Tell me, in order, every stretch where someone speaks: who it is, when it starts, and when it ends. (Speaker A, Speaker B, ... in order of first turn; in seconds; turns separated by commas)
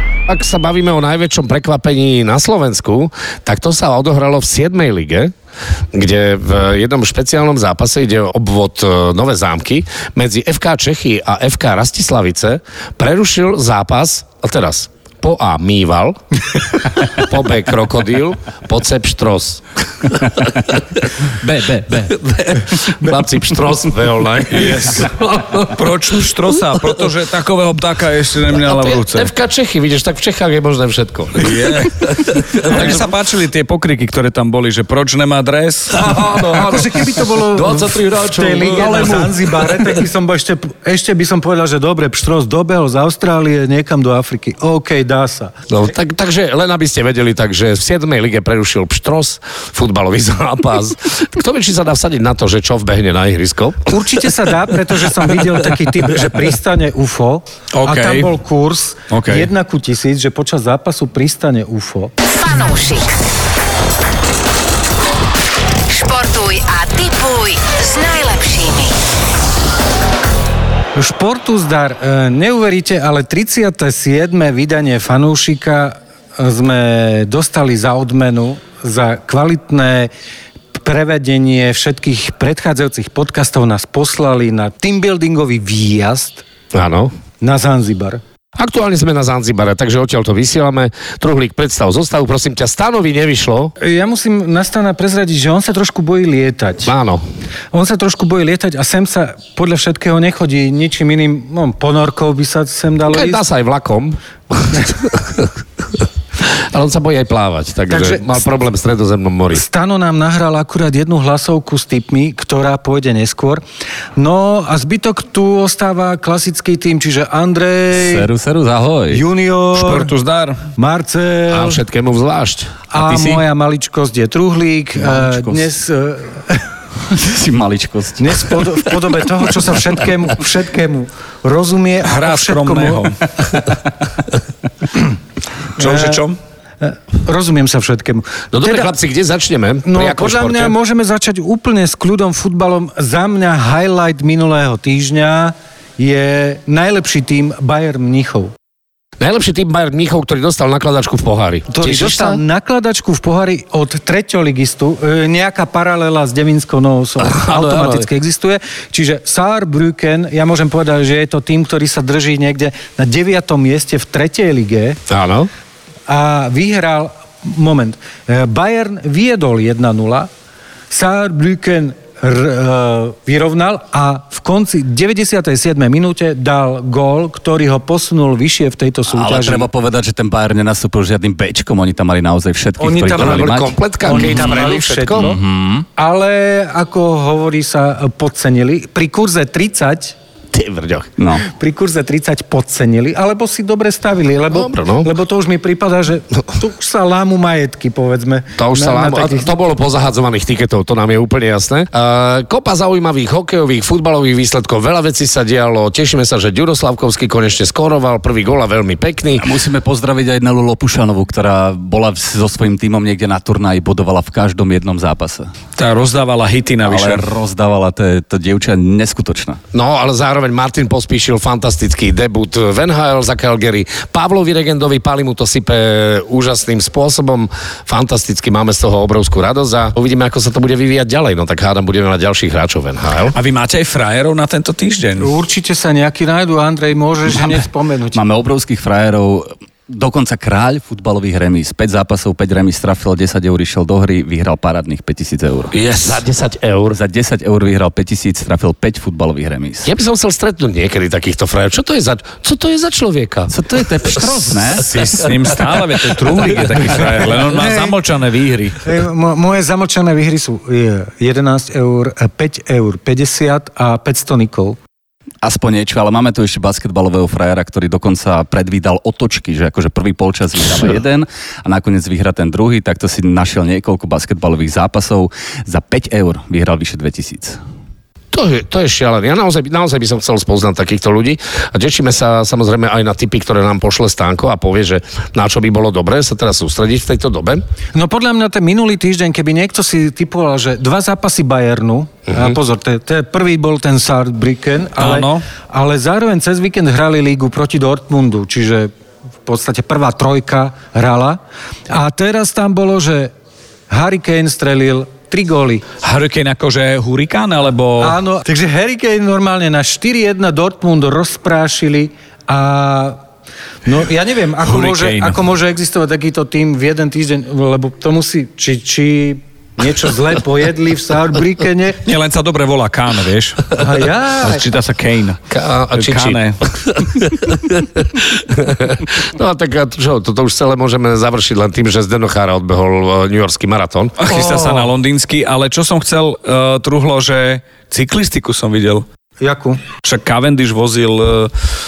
Speaker A: 0.3-5.3, Speaker A: 6.0-16.2, Speaker A: 17.0-19.6, Speaker B: 21.4-22.2, Speaker A: 22.2-25.7, Speaker C: 24.5-25.1, Speaker C: 25.7-29.3, Speaker A: 28.6-31.5, Speaker C: 31.4-36.1, Speaker A: 32.0-33.1, Speaker A: 36.0-40.0, Speaker D: 36.4-45.5, Speaker A: 45.7-53.9, Speaker D: 53.9-62.1, Speaker C: 57.7-58.3, Speaker C: 59.1-59.5, Speaker E: 62.2-63.2, Speaker E: 65.9-69.0, Speaker D: 70.9-80.1, Speaker D: 80.8-86.4, Speaker A: 86.7-87.1, Speaker D: 87.4-88.2, Speaker A: 88.5-93.7, Speaker D: 93.8-96.9, Speaker A: 96.8-97.2, Speaker D: 97.7-103.4, Speaker A: 103.1-105.5, Speaker A: 106.7-109.6, Speaker D: 107.9-108.4, Speaker D: 109.5-113.6, Speaker D: 114.2-118.3, Speaker B: 117.9-119.2, Speaker D: 119.1-120.1, Speaker C: 119.7-120.6, Speaker D: 120.8-121.8, Speaker A: 121.5-122.8, Speaker D: 122.9-126.7, Speaker B: 123.0-123.4, Speaker B: 125.0-125.7, Speaker B: 127.1-128.8, Speaker D: 128.2-133.1, Speaker C: 132.1-133.8, Speaker D: 135.8-136.2, Speaker C: 135.8-136.4, Speaker D: 136.8-138.9, Speaker A: 138.5-140.8, Speaker D: 139.8-148.5, Speaker A: 149.2-152.4, Speaker D: 151.7-165.0, Speaker A: 157.2-158.1, Speaker A: 165.1-165.5, Speaker D: 166.1-170.3, Speaker D: 170.9-179.7, Speaker B: 179.1-185.9, Speaker D: 182.8-183.5, Speaker A: 183.2-185.3, Speaker D: 184.0-185.4, Speaker D: 186.0-190.2, Speaker A: 190.5-191.1, Speaker B: 191.2-191.4, Speaker D: 191.5-199.6, Speaker A: 194.5-195.1, Speaker A: 198.6-209.5, Speaker B: 209.4-215.5, Speaker C: 215.8-217.3, Speaker B: 216.8-219.6, Speaker A: 219.7-233.4, Speaker C: 233.3-235.3, Speaker D: 235.2-238.2, Speaker B: 238.1-245.8, Speaker C: 245.7-246.2, Speaker A: 246.0-247.0, Speaker B: 246.9-249.9, Speaker A: 249.8-253.5, Speaker B: 253.5-254.9, Speaker C: 254.8-258.8, Speaker D: 257.5-258.0, Speaker D: 258.8-264.8, Speaker B: 265.4-277.6, Speaker A: 278.3-287.6, Speaker D: 287.9-298.9, Speaker C: 295.0-295.4, Speaker D: 299.4-303.3, Speaker D: 303.9-305.8, Speaker C: 306.0-308.2, Speaker D: 308.0-313.2, Speaker D: 313.9-322.0, Speaker C: 314.6-315.4, Speaker C: 322.0-323.7, Speaker D: 323.7-324.6, Speaker C: 324.4-325.4, Speaker A: 325.5-334.2, Speaker C: 325.9-326.6, Speaker C: 334.2-339.0, Speaker D: 334.3-334.9, Speaker D: 339.4-339.8, Speaker C: 340.0-341.5